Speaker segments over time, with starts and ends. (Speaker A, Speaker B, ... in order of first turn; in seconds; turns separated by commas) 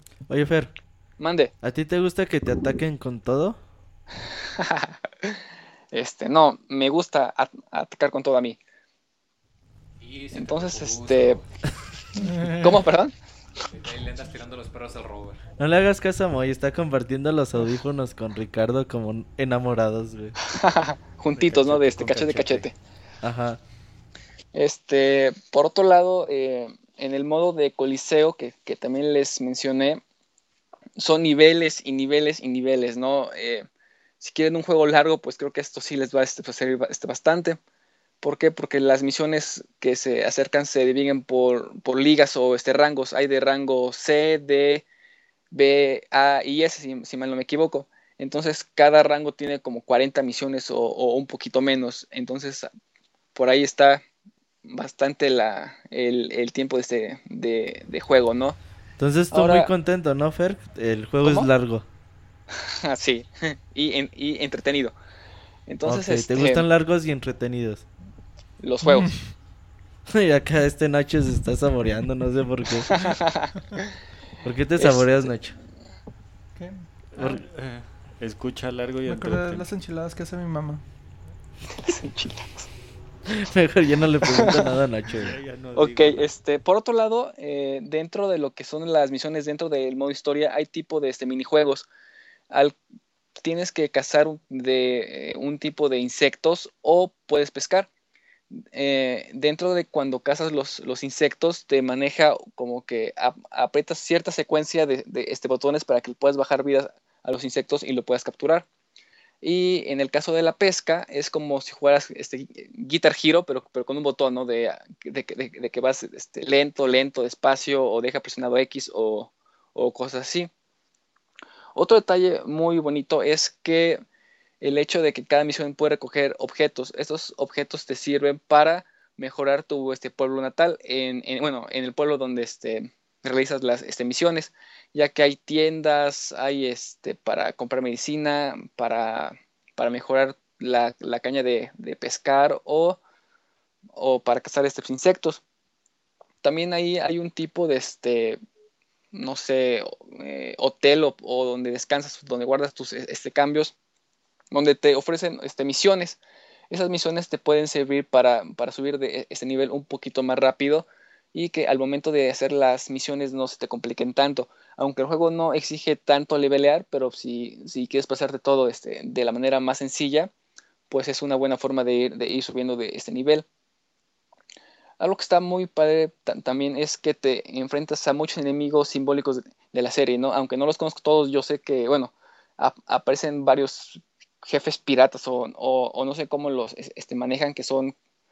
Speaker A: 0.3-0.7, Speaker B: 1.2-1.5, Speaker A: 1.6-3.6, Speaker B: 4.6-5.4, Speaker B: 5.9-8.6, Speaker C: 10.0-11.4, Speaker B: 10.3-11.4, Speaker D: 12.2-12.8, Speaker B: 12.5-13.1, Speaker C: 13.6-15.4, Speaker A: 15.6-20.4, Speaker B: 20.4-22.7, Speaker A: 21.4-22.6, Speaker A: 23.2-23.6, Speaker B: 24.5-30.0, Speaker B: 31.0-33.6, Speaker B: 34.2-37.6, Speaker B: 38.2-44.8, Speaker B: 45.5-52.7, Speaker B: 53.3-54.0, Speaker B: 54.6-58.5, Speaker A: 59.0-61.8, Speaker B: 59.3-59.7, Speaker B: 62.6-64.9, Speaker B: 65.7-66.6, Speaker A: 65.8-67.8, Speaker B: 68.6-69.2, Speaker D: 68.8-69.1, Speaker A: 70.1-72.9, Speaker B: 72.8-73.5, Speaker A: 74.4-75.5, Speaker B: 74.8-75.1, Speaker E: 77.2-79.7, Speaker D: 79.0-80.8, Speaker B: 81.8-82.7, Speaker A: 83.3-85.3, Speaker B: 84.3-84.7, Speaker E: 85.2-86.3, Speaker B: 85.7-91.8, Speaker B: 92.5-92.8, Speaker B: 93.4-97.9, Speaker B: 98.7-108.6, Speaker B: 109.4-120.5, Speaker B: 121.7-124.0, Speaker B: 124.6-143.0, Speaker B: 143.9-145.4, Speaker B: 146.4-148.4, Speaker B: 149.1-153.7, Speaker B: 154.5-156.2, Speaker B: 156.7-170.3, Speaker B: 170.9-173.4, Speaker B: 175.0-187.9